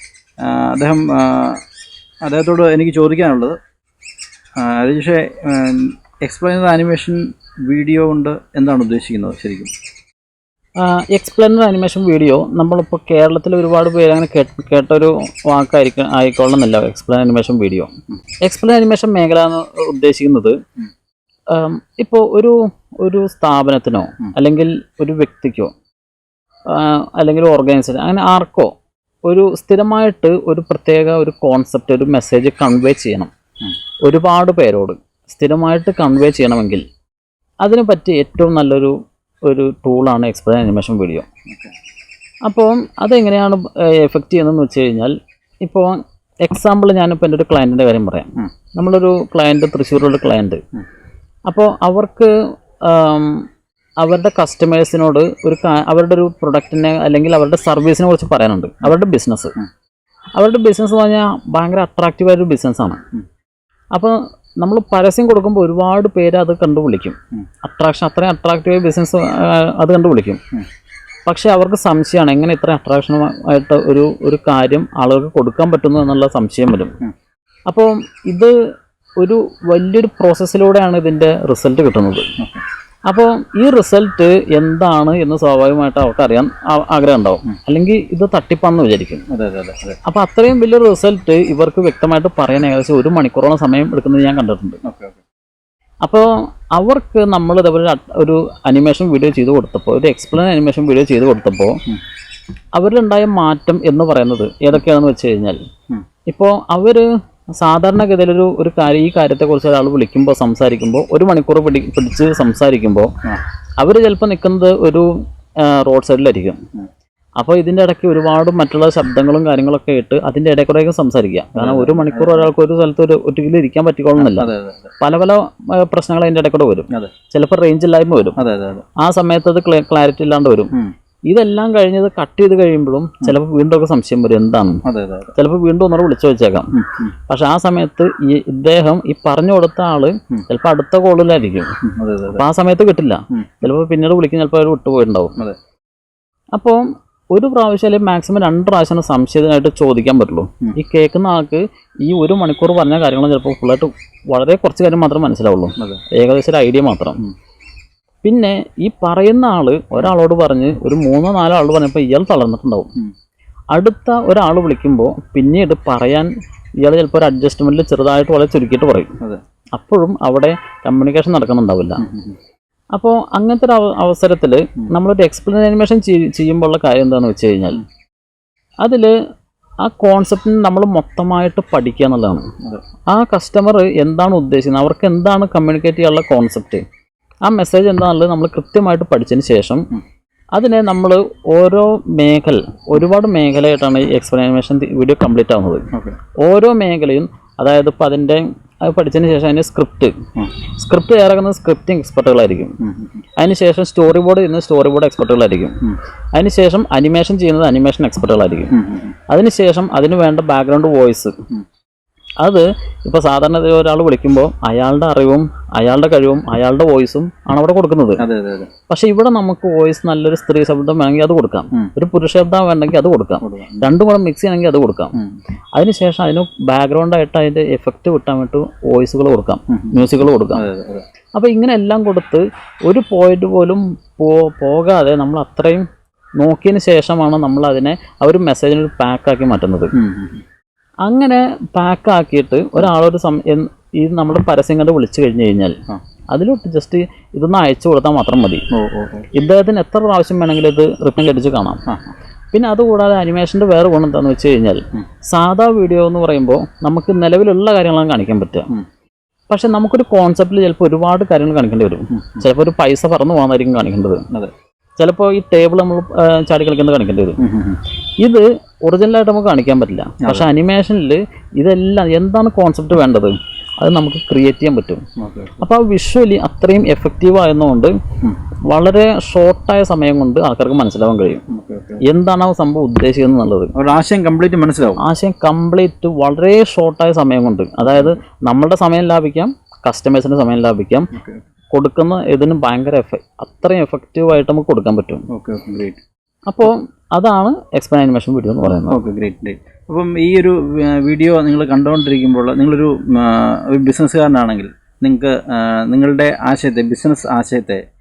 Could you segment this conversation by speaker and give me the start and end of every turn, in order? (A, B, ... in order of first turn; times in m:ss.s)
0:00.4-0:01.6 A
0:02.2-0:03.6 A
0:04.6-0:09.7 A
0:10.8-0:17.9 B
0:18.4-0:20.6 B
0:21.5-0:25.7 B
0:26.7-0:28.7 B
0:29.3-0:33.3 B
0:34.0-0:36.8 B
0:37.6-0:38.9 B
0:39.5-0:41.3 B
0:42.4-0:50.6 B
0:51.5-0:52.3 B
0:52.8-0:53.4 B
0:54.0-0:59.6 B
1:00.4-1:03.0 B
1:03.9-1:10.4 B
1:11.3-1:17.0 B
1:17.7-1:18.5 B
1:19.2-1:22.3 B
1:23.1-1:29.2 B
1:29.3-1:30.0 A
1:30.1-1:34.8 B
1:34.8-1:35.2 A
1:36.0-1:41.8 B
1:42.8-1:45.6 B
1:46.3-1:47.1 B
1:47.6-1:53.1 B
1:53.8-1:56.6 B
1:57.4-2:08.4 B
2:01.6-2:02.5 A
2:04.2-2:04.9 A
2:08.4-2:08.9 A
2:09.0-2:10.7 B
2:11.3-2:14.8 B
2:14.9-2:15.3 A
2:15.4-2:16.7 B
2:16.8-2:17.1 A
2:17.3-2:21.7 B
2:21.9-2:22.4 A
2:22.4-2:25.4 B
2:26.5-2:37.2 B
2:38.2-2:42.9 B
2:43.7-2:46.3 B
2:46.8-2:49.1 B
2:49.8-2:52.0 B
2:52.0-2:52.4 A
2:52.9-2:57.8 B
2:58.8-2:59.1 B
2:59.8-3:02.5 B
3:03.1-3:06.8 B
3:07.4-3:09.8 B
3:10.6-3:15.9 B
3:16.4-3:20.1 B
3:20.8-3:22.8 B
3:22.8-3:23.2 A
3:23.4-3:25.8 B
3:26.4-3:28.7 B
3:28.7-3:29.1 A
3:29.3-3:31.4 B
3:32.4-3:38.2 B
3:38.2-3:38.7 A
3:38.9-3:45.2 B
3:43.4-3:43.9 A
3:45.8-3:50.6 B
3:50.6-3:51.0 A
3:51.4-3:55.9 B
3:56.4-3:59.9 B
4:00.0-4:00.4 A
4:01.0-4:05.8 B
4:06.3-4:08.6 B
4:08.7-4:09.3 A
4:09.4-4:11.8 B
4:12.5-4:18.7 B
4:19.5-4:24.2 B
4:25.0-4:27.4 B
4:27.4-4:27.8 A
4:28.2-4:35.0 B
4:30.2-4:30.5 A
4:35.2-4:35.5 A
4:35.6-4:38.0 B
4:38.7-4:41.4 B
4:41.5-4:42.0 A
4:42.1-4:43.7 B
4:43.8-4:45.0 A
4:45.0-4:51.1 B
4:47.8-4:48.2 A
4:51.2-4:51.4 A
4:51.7-4:55.2 B
4:55.3-4:56.0 A
4:56.5-4:59.0 B
4:58.9-5:07.8 A